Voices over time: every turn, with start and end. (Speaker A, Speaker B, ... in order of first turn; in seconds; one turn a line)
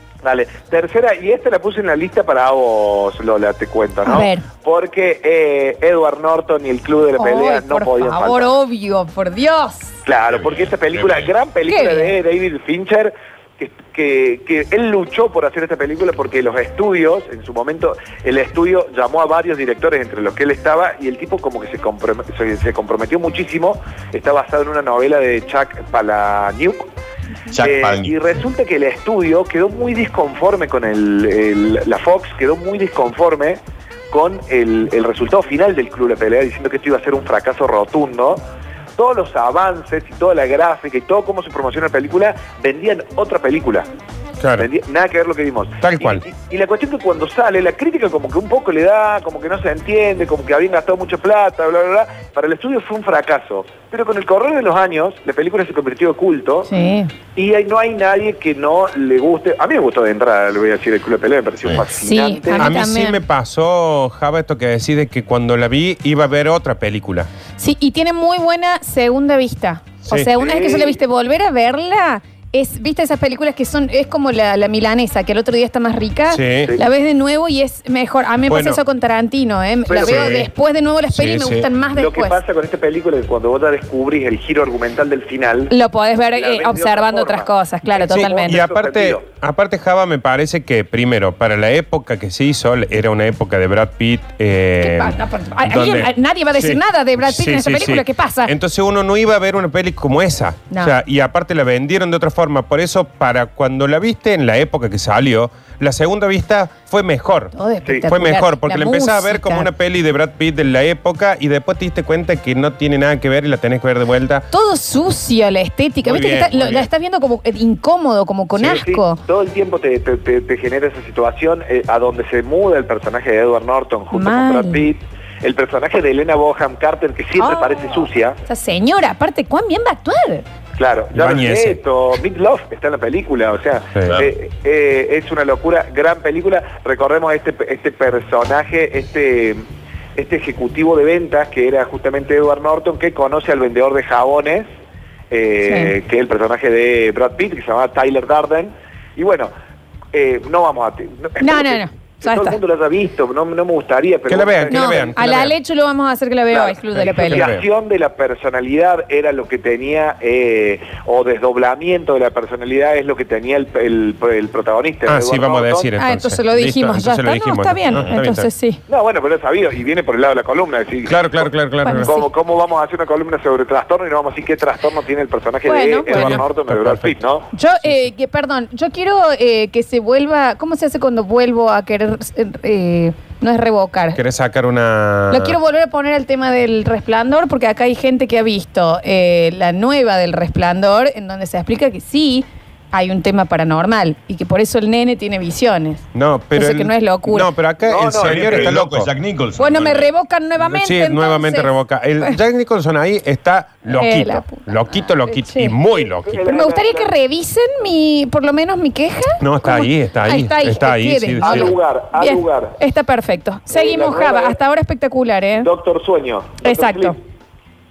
Speaker A: 0.2-8.5
Speaker B: 4.0-4.5
Speaker B: 7.2-9.9
Speaker A: 10.1-26.9
Speaker C: 10.3-11.3
Speaker B: 11.7-12.1
Speaker C: 27.5-28.1
Speaker A: 27.6-38.4
Speaker A: 39.0-43.9
Speaker D: 44.4-44.7
Speaker A: 44.6-56.7
Speaker D: 45.8-46.2
Speaker B: 56.7-57.1
Speaker A: 57.4-62.7
Speaker B: 62.0-63.2
Speaker D: 62.6-67.3
Speaker B: 67.6-82.4
Speaker D: 70.0-70.3
Speaker A: 70.4-71.0
Speaker D: 76.3-76.7
Speaker D: 78.5-78.8
Speaker A: 79.9-80.4
Speaker D: 80.0-80.5
Speaker D: 81.1-81.7
Speaker A: 82.0-85.7
Speaker B: 85.7-88.6
Speaker A: 86.3-89.2
Speaker D: 88.4-107.5
Speaker B: 94.8-98.5
Speaker B: 107.5-109.7
Speaker D: 108.0-114.5
Speaker B: 114.5-119.2
Speaker D: 116.0-116.9
Speaker A: 118.6-128.4
Speaker B: 124.1-124.8
Speaker B: 127.4-130.4
Speaker A: 130.8-139.6
Speaker D: 131.1-131.8
Speaker A: 140.2-144.7
Speaker A: 145.3-149.5
Speaker B: 145.6-145.9
Speaker A: 150.1-155.1
Speaker B: 151.4-152.6
Speaker D: 154.3-155.6
Speaker B: 154.7-157.5
Speaker A: 156.5-165.9
Speaker D: 157.0-157.6
Speaker D: 165.1-168.5
Speaker B: 166.0-168.8
Speaker A: 168.9-177.5
Speaker D: 171.1-172.2
Speaker B: 171.8-172.3
Speaker B: 175.7-176.4
Speaker D: 176.1-177.2
Speaker B: 177.5-184.2
Speaker D: 184.2-185.6
Speaker B: 185.3-197.5
Speaker D: 196.1-199.1
Speaker A: 197.8-198.8
Speaker C: 198.1-200.1
Speaker B: 199.6-202.4
Speaker D: 200.6-206.4
Speaker B: 203.9-205.8
Speaker A: 206.2-207.1
Speaker B: 206.4-215.7
Speaker D: 209.4-211.8
Speaker A: 211.4-212.8
Speaker A: 213.7-214.6
Speaker A: 215.6-217.2
Speaker B: 216.6-217.2